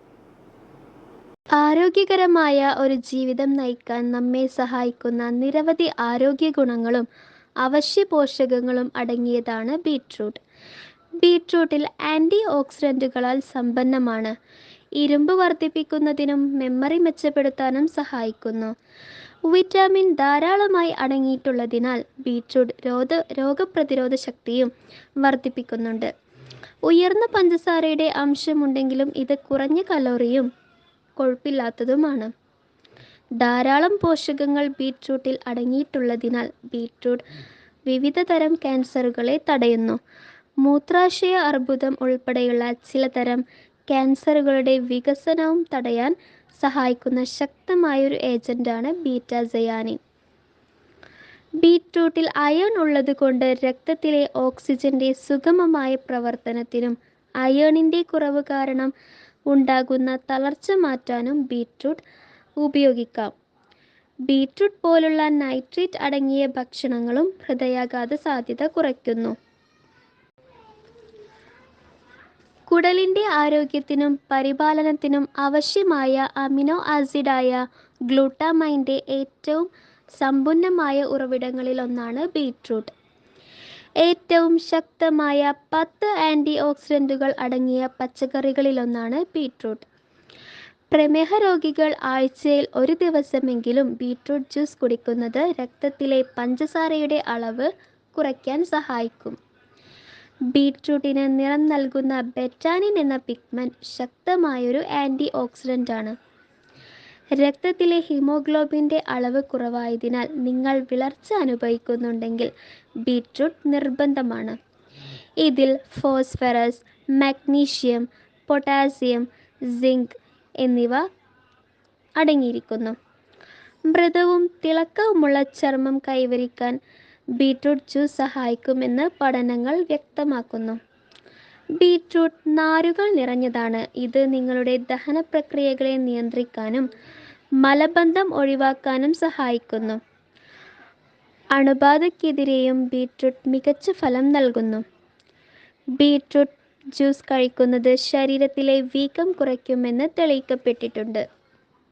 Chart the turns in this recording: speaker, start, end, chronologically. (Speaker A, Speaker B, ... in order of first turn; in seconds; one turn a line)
Speaker A: 1.6-7.1
Speaker A: 7.6-10.4
Speaker A: 11.2-14.3
Speaker A: 15.0-18.7
Speaker A: 19.5-24.7
Speaker A: 25.2-26.1
Speaker A: 26.8-30.5
Speaker A: 31.2-32.3
Speaker A: 33.4-37.2
Speaker A: 37.9-40.0
Speaker A: 40.6-50.0
Speaker A: 51.6-58.9
Speaker A: 59.5-62.0
Speaker A: 62.6-63.3
Speaker A: 64.3-69.3
Speaker A: 72.7-82.9
Speaker A: 84.0-89.8
Speaker A: 90.9-99.4
Speaker A: 100.5-106.1
Speaker A: 107.4-112.5
Speaker A: 113.0-114.5
Speaker A: 115.4-121.0
Speaker A: 122.2-123.0
Speaker A: 123.9-126.8
Speaker A: 127.4-130.8
Speaker A: 131.8-136.9
Speaker A: 137.6-140.0
Speaker A: 141.5-144.8
Speaker A: 146.0-151.2